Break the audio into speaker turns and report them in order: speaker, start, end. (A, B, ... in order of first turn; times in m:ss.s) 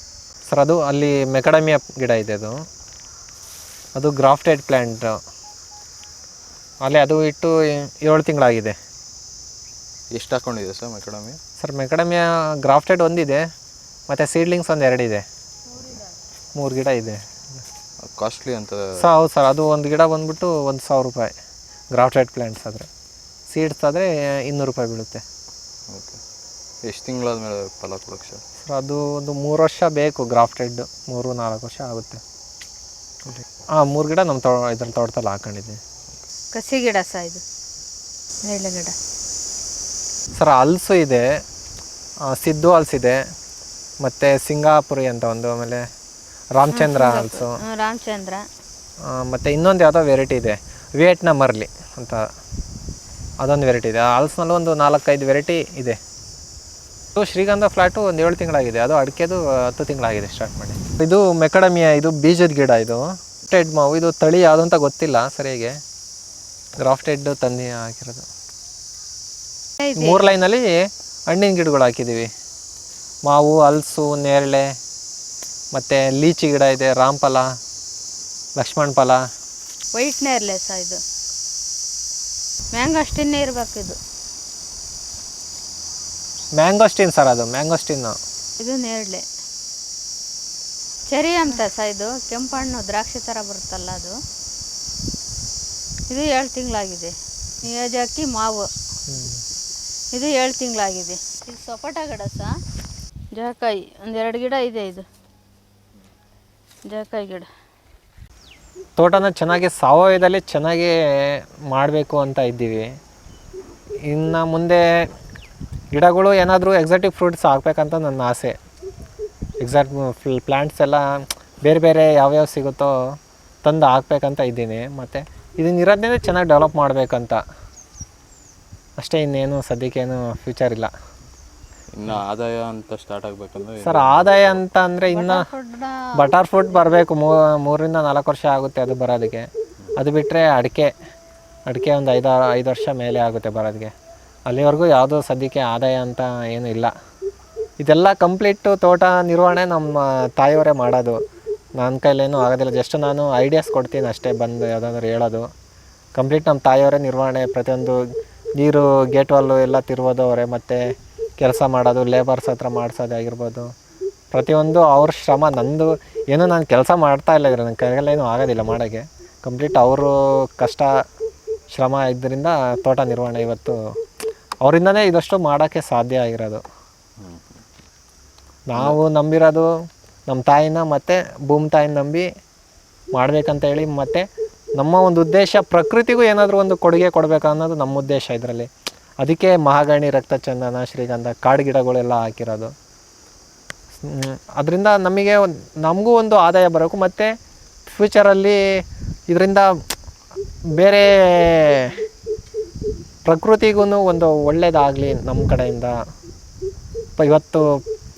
0:00.5-0:02.6 A
0:04.0-0:05.2 A
0:06.8-0:08.8 A
0:10.1-0:11.4 B
0:11.6-0:13.5 A
0:14.1-0:15.2 A
0:16.6-0:17.2 A
0:18.0-0:19.1 B
0:19.0-0:21.3 A
0:21.9-0:22.9 A
0:23.5-0:25.2 A
0:25.9-0:26.2 B
0:26.8-0:28.4 B
0:28.6-0:32.2 A
0:33.7-0:35.8 A
0:36.5-0:37.4 C
0:38.4-0:39.0 C
0:40.4-0:41.3 A
0:42.3-0:43.2 A
0:44.0-0:45.9 A
0:46.5-0:47.6 A
0:46.7-0:48.4 C
0:49.0-0:52.2 A
0:53.4-0:56.0 A
0:57.2-1:05.8 A
1:06.8-1:08.3 A
1:09.8-1:10.3 C
1:10.0-1:12.3 A
1:13.2-1:14.8 A
1:15.7-1:17.5 A
1:18.6-1:19.2 A
1:19.9-1:21.0 C
1:22.7-1:24.0 C
1:26.6-1:28.2 A
1:28.6-1:29.2 C
1:31.1-1:34.2 C
1:36.1-1:38.7 C
1:39.1-1:39.4 A
1:40.1-1:42.5 C
1:43.3-1:45.0 C
1:46.8-1:47.5 C
1:49.0-1:53.0 A
1:54.0-1:55.1 A
1:55.9-1:58.6 A
1:59.6-2:02.9 A
2:03.6-2:07.4 A
2:09.0-2:10.9 A
2:11.9-2:14.6 B
2:13.8-2:15.5 A
2:15.1-2:16.3 C
2:16.2-2:20.9 A
2:21.7-2:23.9 A
2:24.5-2:26.9 A
2:27.8-2:31.2 A
2:31.8-2:35.5 A
2:36.2-2:38.0 A
2:38.6-2:43.7 A
2:44.3-2:50.9 A
2:51.7-2:53.8 A
2:54.6-2:56.6 A
2:57.2-2:57.6 B
2:58.7-2:59.7 A
3:00.3-3:02.3 A
3:03.1-3:04.3 A
3:04.8-3:08.7 A
3:09.2-3:12.7 A
3:14.0-3:17.3 A
3:17.9-3:18.6 A
3:19.3-3:19.8 A
3:20.8-3:22.0 A
3:23.2-3:26.0 A
3:27.2-3:27.8 A